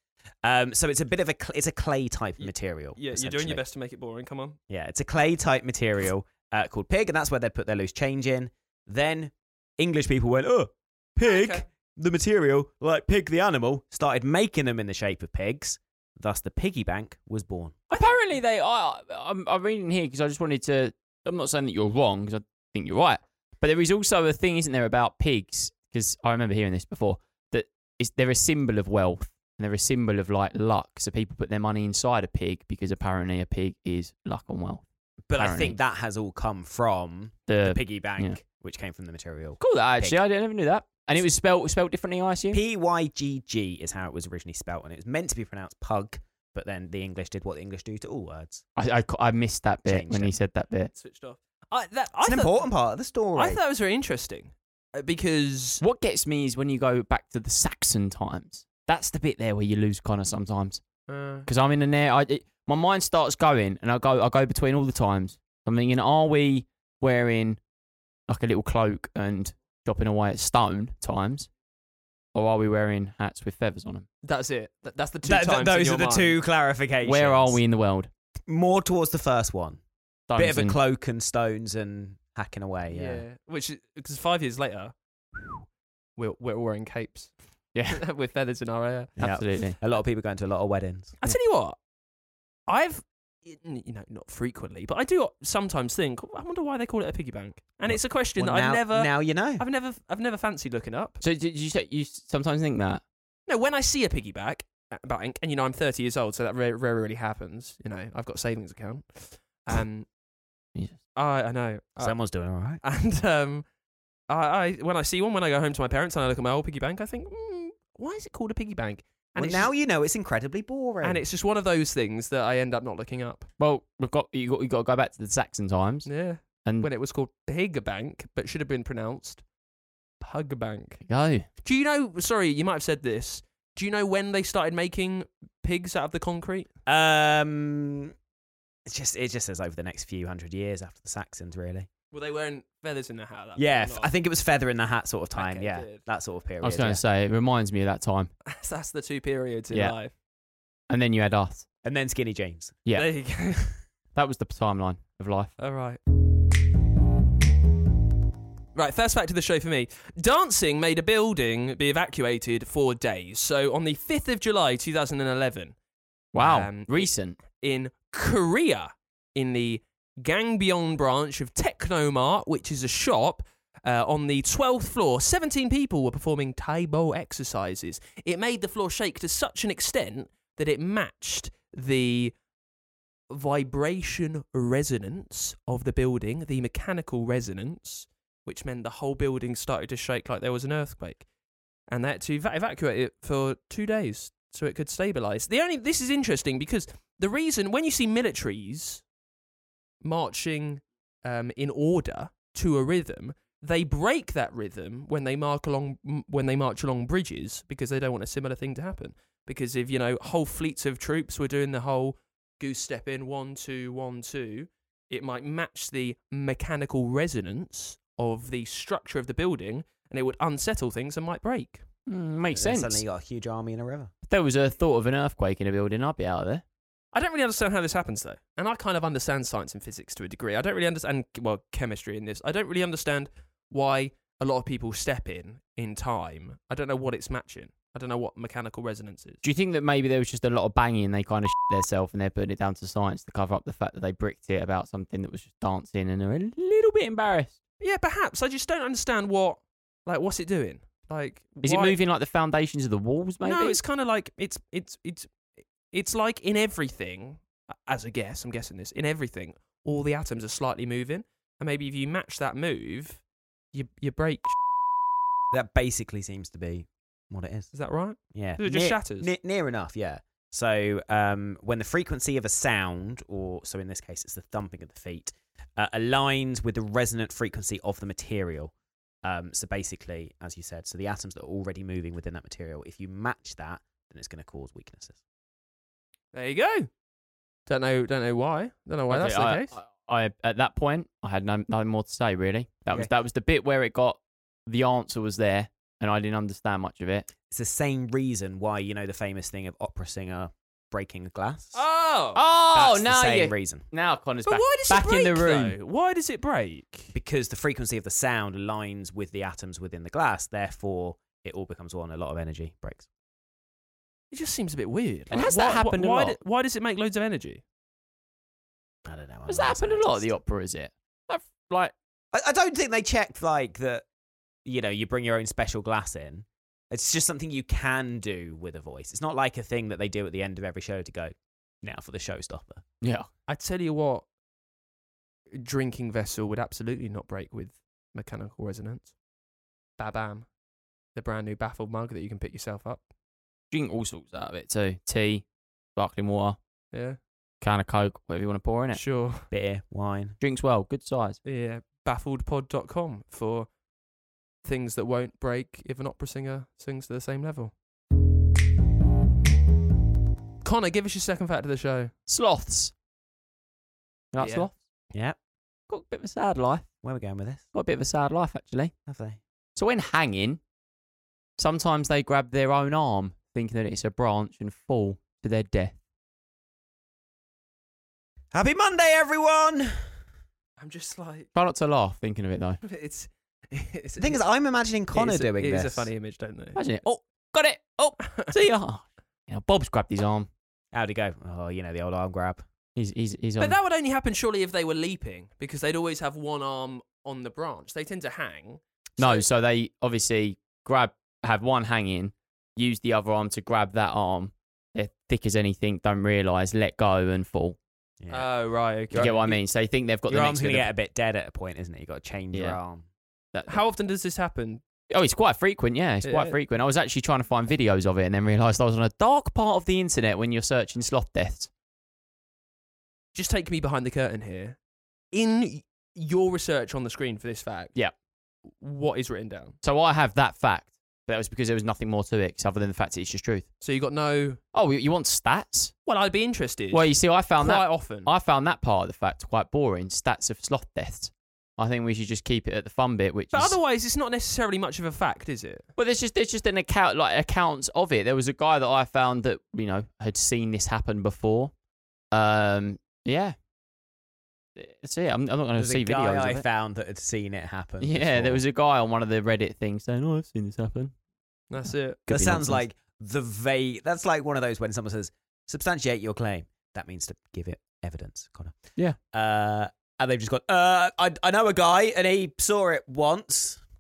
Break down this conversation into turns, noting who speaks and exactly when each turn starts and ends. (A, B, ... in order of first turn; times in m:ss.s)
0:00.4-0:03.6 A
0:02.4-0:04.6 B
0:04.7-0:17.8 A
0:11.2-0:11.6 B
0:17.9-0:18.2 B
0:17.9-0:35.8 C
0:35.3-0:40.2 A
0:37.5-0:38.4 C
0:39.6-0:42.6 C
0:42.5-0:48.6 A
0:48.8-0:50.9 C
0:49.8-0:50.3 A
0:50.9-0:52.6 B
0:52.2-0:53.6 A
0:53.3-0:55.8 B
0:55.8-1:00.8 C
1:01.1-1:01.5 B
1:01.4-1:07.6 C
1:08.3-1:11.5 C
1:12.3-1:14.0 C
1:14.2-1:16.4 B
1:15.2-1:17.6 A
1:17.0-1:18.1 C
1:18.5-1:19.8 A
1:20.3-1:20.8 C
1:20.3-1:23.2 A
1:22.9-1:25.6 B
1:26.2-1:27.3 B
1:27.7-1:28.0 C
1:27.9-1:29.1 B
1:29.2-1:29.8 C
1:29.2-1:31.1 A
1:31.2-1:31.8 B
1:32.7-1:41.2 B
1:37.9-1:39.6 A
1:41.2-1:43.0 C
1:43.5-1:50.1 B
1:51.1-1:52.1 B
1:52.0-1:52.8 A
1:52.8-1:53.6 B
1:54.3-1:59.7 B
1:59.4-2:01.2 A
2:01.0-2:03.5 B
2:03.6-2:06.1 C
2:06.0-2:09.4 B
2:06.6-2:06.9 C
2:10.2-2:11.0 B
2:11.0-2:11.5 C
2:11.6-2:16.7 B
2:16.9-2:18.1 A
2:18.8-2:21.9 A
2:22.1-2:24.1 B
2:23.6-2:27.0 A
2:25.3-2:26.0 B
2:26.6-2:28.3 C
2:28.4-2:30.1 B
2:30.9-2:31.6 C
2:31.8-2:32.8 A
2:32.9-2:33.7 B
2:34.1-2:35.5 C
2:35.6-2:36.0 B
2:38.7-2:45.8 B
2:46.3-2:47.4 C
2:46.4-3:02.3 B
3:03.3-3:11.2 B
3:11.9-3:19.0 B
3:20.0-3:41.8 B
3:42.1-3:43.0 C
3:42.5-3:44.1 A
3:44.3-3:46.6 C
3:47.1-3:59.4 B
3:59.4-4:07.6 C
4:07.8-4:12.0 B
4:11.6-4:13.8 C
4:13.4-4:15.3 B
4:15.9-4:23.2 B
4:23.7-4:24.5 B
4:25.5-4:27.7 A
4:27.7-4:29.3 B
4:28.3-4:38.7 A
4:39.2-4:45.2 A
4:46.3-4:46.9 B
4:47.7-4:49.7 B
4:49.1-4:57.3 C
4:57.5-5:01.8 A
5:01.7-5:02.4 B
5:02.3-5:05.7 C
5:02.7-5:03.8 A
5:04.4-5:07.1 B
5:07.1-5:13.1 A
5:14.3-5:17.6 B
5:15.3-5:16.4 C
5:19.0-5:20.3 A
5:19.5-5:21.9 C
5:22.3-5:24.0 A
5:24.6-5:32.8 A
5:33.0-5:33.3 C
5:33.5-5:34.2 B
5:35.6-5:39.1 B
5:40.0-5:40.5 B
5:41.2-5:43.0 B
5:43.7-5:45.4 C
5:46.0-5:46.6 C
5:46.9-5:47.2 B
5:47.6-5:49.0 C
5:48.9-5:49.4 B
5:49.5-5:50.4 A
5:50.4-5:51.4 C
5:51.4-5:53.7 B
5:54.6-5:57.7 B
6:00.6-6:02.1 B
6:02.3-6:02.9 C
6:04.3-6:04.7 C
6:04.4-6:04.7 B
6:05.9-6:06.9 C
6:07.0-6:07.6 A
6:07.7-6:08.9 C
6:09.1-6:09.4 A
6:09.8-6:10.6 C
6:11.6-6:16.0 C
6:18.5-6:20.0 A
6:20.8-6:21.5 B
6:21.5-6:22.8 C
6:22.8-6:24.4 B
6:24.2-6:26.1 A
6:25.1-6:26.8 B
6:26.7-6:30.5 C
6:30.9-6:32.6 A
6:33.0-6:33.8 C
6:33.6-6:39.4 B
6:39.2-6:47.8 C
6:48.2-6:48.5 A
6:48.3-6:49.5 B
6:49.1-6:49.5 A
6:49.1-6:50.9 C
6:50.3-6:53.0 A
6:52.5-6:52.8 C
6:53.5-6:53.8 C
6:53.7-6:54.8 B
6:55.1-7:01.7 C
6:56.2-6:56.6 B
7:03.3-7:04.8 B
7:05.3-7:07.9 B
7:08.8-7:09.8 B
7:09.8-7:13.6 C
7:13.8-7:14.6 B
7:14.7-7:15.9 C
7:16.0-7:18.3 B
7:16.9-7:23.8 C
7:23.5-7:25.9 B
7:26.0-7:31.7 C
7:32.3-7:33.6 C
7:34.8-7:36.6 C
7:35.8-7:38.6 A
7:38.0-7:41.1 C
7:41.7-7:42.2 B
7:42.3-7:42.8 C
7:42.3-7:48.8 A
7:49.3-7:53.8 A